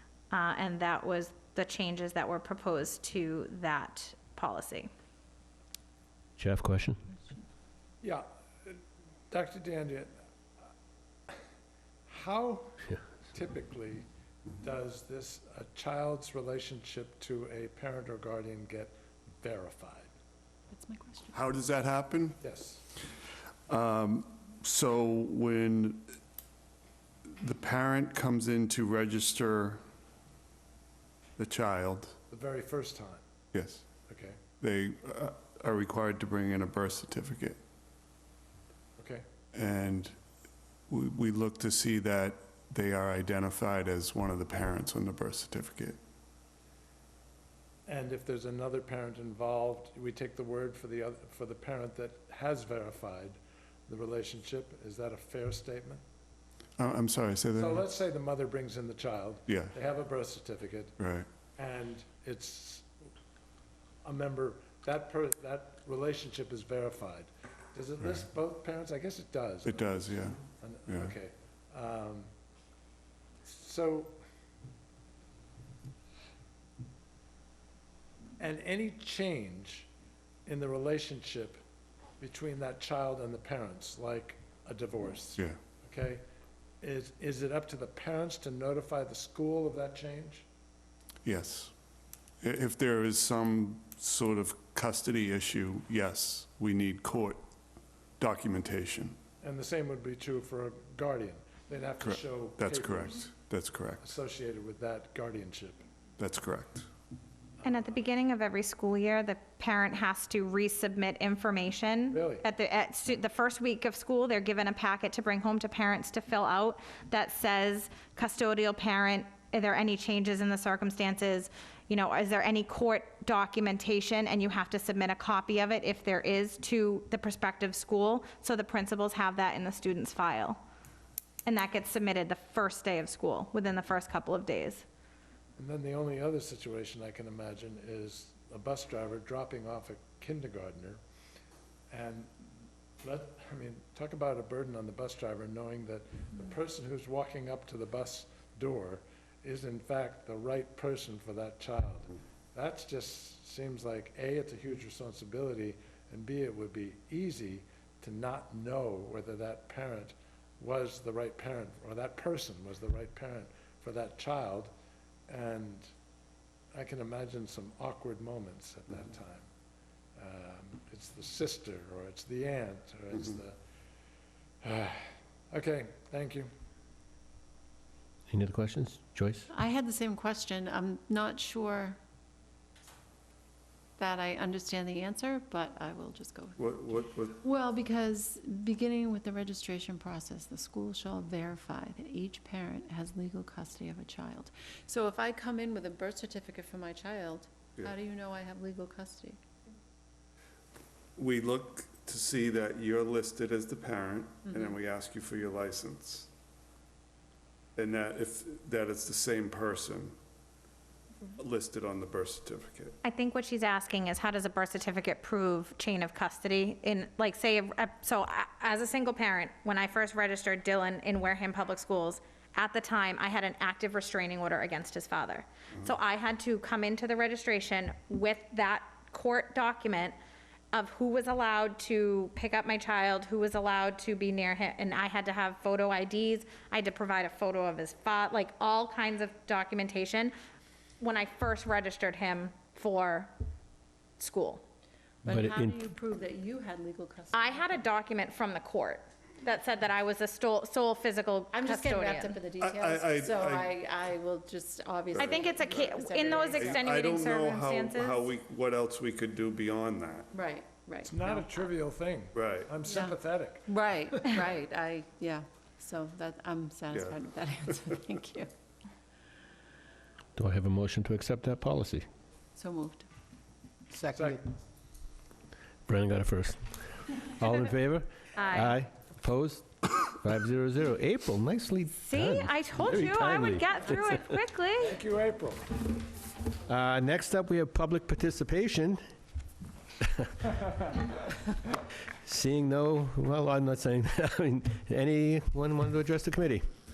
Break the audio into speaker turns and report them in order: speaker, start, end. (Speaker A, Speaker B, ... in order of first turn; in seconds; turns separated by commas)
Speaker A: 0.3-4.9, Speaker B: 6.4-7.0, Speaker C: 8.0-10.1, Speaker C: 12.1-14.1, Speaker C: 14.6-20.1, Speaker D: 20.7-21.4, Speaker E: 21.3-22.4, Speaker C: 22.4-22.8, Speaker E: 23.7-26.1, Speaker E: 27.4-29.8, Speaker E: 31.4-32.1, Speaker C: 32.3-33.2, Speaker E: 33.5-33.9, Speaker C: 34.1-34.4, Speaker E: 34.6-37.6, Speaker C: 39.0-39.2, Speaker E: 39.5-40.2, Speaker E: 40.9-46.0, Speaker C: 47.9-56.0, Speaker E: 56.8-57.8, Speaker C: 57.5-61.0, Speaker E: 59.5-59.8, Speaker E: 61.0-61.3, Speaker C: 61.6-62.9, Speaker C: 64.0-72.3, Speaker E: 68.0-68.2, Speaker E: 69.7-71.2, Speaker C: 73.4-74.2, Speaker C: 78.4-79.9, Speaker C: 80.5-81.6, Speaker C: 82.2-86.2, Speaker C: 86.8-90.5, Speaker E: 91.2-91.7, Speaker E: 92.4-97.4, Speaker E: 98.2-99.2, Speaker C: 99.4-103.2, Speaker E: 102.0-104.0, Speaker C: 104.0-105.8, Speaker E: 106.2-106.9, Speaker A: 107.6-130.6, Speaker C: 112.1-112.5, Speaker A: 131.5-134.8, Speaker C: 135.6-141.0, Speaker C: 141.9-142.3, Speaker C: 143.0-164.7, Speaker C: 165.3-165.9, Speaker C: 166.7-169.5, Speaker C: 170.2-173.6, Speaker C: 174.6-176.5, Speaker B: 178.3-179.5, Speaker D: 179.6-182.0, Speaker D: 184.0-186.6, Speaker E: 186.6-187.4, Speaker D: 187.4-199.4, Speaker E: 201.2-206.3, Speaker E: 207.8-210.2, Speaker E: 211.3-212.9, Speaker A: 213.0-230.2, Speaker A: 230.7-240.3, Speaker A: 241.0-243.3, Speaker A: 244.2-244.6, Speaker B: 245.3-245.8, Speaker D: 245.3-247.7, Speaker A: 247.3-252.4, Speaker D: 251.5-256.9, Speaker E: 252.6-253.7, Speaker E: 255.2-255.5, Speaker A: 255.2-258.3, Speaker E: 256.4-260.3, Speaker D: 260.4-261.5, Speaker C: 261.1-264.4, Speaker E: 262.4-262.8, Speaker D: 262.9-263.1, Speaker D: 263.7-268.5, Speaker B: 270.4-272.1, Speaker D: 272.6-273.1, Speaker C: 273.9-274.5, Speaker B: 275.9-276.6, Speaker B: 277.3-284.4, Speaker A: 278.4-278.8, Speaker A: 282.0-284.9, Speaker C: 284.8-285.7, Speaker B: 286.7-289.0, Speaker B: 290.0-290.3, Speaker B: 292.2-296.6